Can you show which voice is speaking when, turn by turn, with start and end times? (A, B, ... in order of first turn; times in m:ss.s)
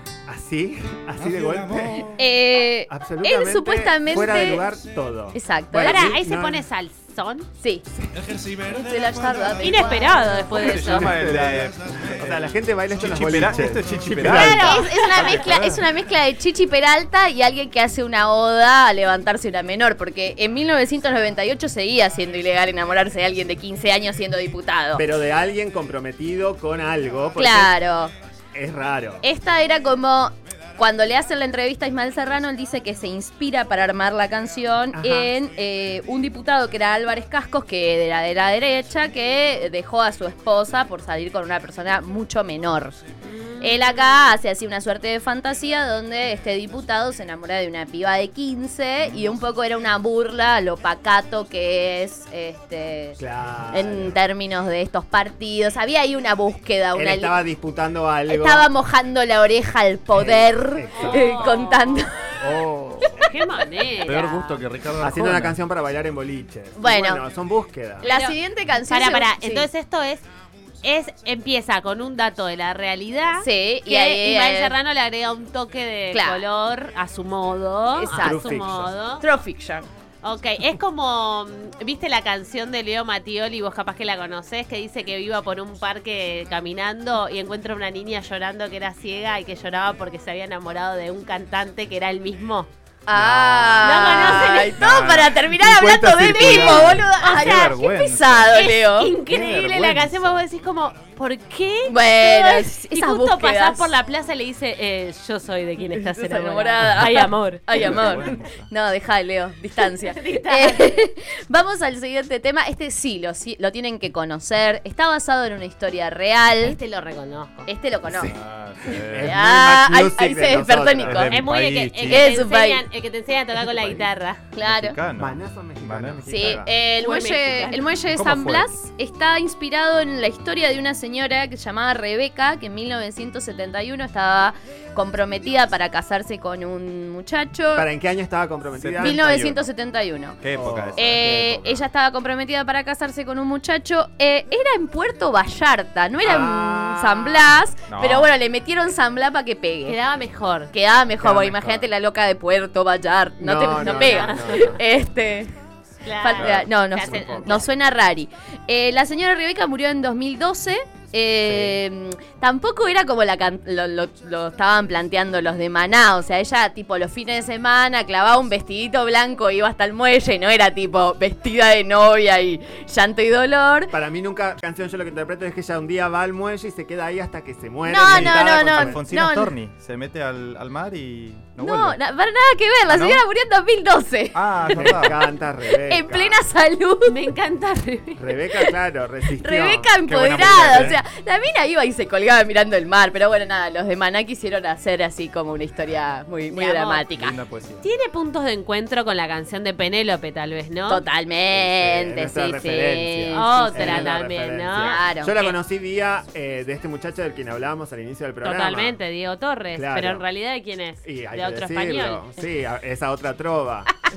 0:00.3-0:02.1 A
0:01.1-0:02.2 B
0:02.1-0:04.6 C
0:02.9-0:06.6 A
0:04.1-0:05.0 B
0:05.3-0:06.1 C
0:05.8-0:07.5 D
0:07.6-0:07.9 C
0:07.9-0:08.2 A
0:08.1-0:14.9 B
0:08.6-0:10.7 C
0:09.6-0:11.2 D
0:10.6-0:12.4 E
0:10.8-0:15.1 A
0:13.1-0:15.9 E
0:14.2-0:25.0 C
0:25.0-0:27.8 A
0:27.4-0:28.1 C
0:28.5-0:29.2 A
0:29.2-0:43.0 C
0:34.9-0:35.3 A
0:43.2-0:43.9 D
0:43.6-0:53.2 C
0:53.2-0:54.2 A
0:53.7-0:57.4 C
0:56.9-0:58.7 A
0:58.3-1:02.4 C
1:00.1-1:01.6 A
1:00.9-1:02.0 D
1:02.4-1:03.2 A
1:03.2-1:04.6 D
1:04.0-1:05.6 E
1:05.0-1:08.1 A
1:06.8-1:07.2 C
1:08.0-1:09.7 C
1:08.0-1:10.2 D
1:10.8-1:19.2 D
1:13.4-1:14.7 C
1:16.1-1:16.4 C
1:17.9-1:18.6 C
1:18.2-1:18.9 A
1:19.2-1:19.9 C
1:20.2-1:32.7 D
1:33.1-1:39.1 C
1:33.1-1:33.9 E
1:33.8-1:34.8 D
1:34.8-1:38.5 E
1:36.3-1:37.7 D
1:38.5-1:48.0 D
1:39.3-1:40.4 E
1:41.8-1:43.9 C
1:45.9-1:56.8 C
1:47.7-1:48.7 E
1:49.8-1:50.9 D
1:56.6-1:57.7 D
1:57.7-1:58.3 C
1:58.2-1:59.3 E
1:58.9-2:01.4 A
1:59.2-2:01.3 C
2:01.0-2:02.3 E
2:01.3-2:04.4 D
2:02.0-2:02.8 C
2:04.5-2:05.0 C
2:04.6-2:06.4 E
2:05.2-2:06.7 A
2:06.3-2:17.9 C
2:07.0-2:07.9 D
2:08.2-2:08.7 E
2:17.7-2:19.4 A
2:18.8-2:19.6 E
2:19.0-2:20.4 C
2:20.4-2:21.2 E
2:20.5-2:21.8 A
2:21.0-2:30.0 C
2:26.2-2:27.4 A
2:27.9-2:28.3 E
2:29.8-2:30.7 D
2:30.7-2:35.5 C
2:31.2-2:31.9 A
2:33.4-2:34.8 A
2:33.9-2:34.7 D
2:36.0-2:37.6 D
2:36.2-2:53.9 C
2:36.4-2:37.6 A
2:41.5-2:41.8 A
2:53.9-2:59.0 A
2:57.8-2:59.5 C
2:58.0-3:02.0 E
3:01.6-3:05.2 C
3:02.9-3:03.2 E
3:04.3-3:05.2 E
3:04.7-3:06.4 A
3:05.8-3:07.1 C
3:07.0-3:08.2 D
3:08.2-3:09.9 A
3:09.4-3:17.4 C
3:10.1-3:11.0 E
3:10.4-3:11.0 A
3:16.5-3:17.0 D
3:17.1-3:17.8 E
3:17.8-3:21.0 D
3:20.9-3:24.1 C
3:21.5-3:29.0 A
3:23.3-3:25.6 D
3:24.8-3:25.3 C
3:28.4-3:32.2 D
3:29.7-3:30.2 A
3:31.0-3:33.9 A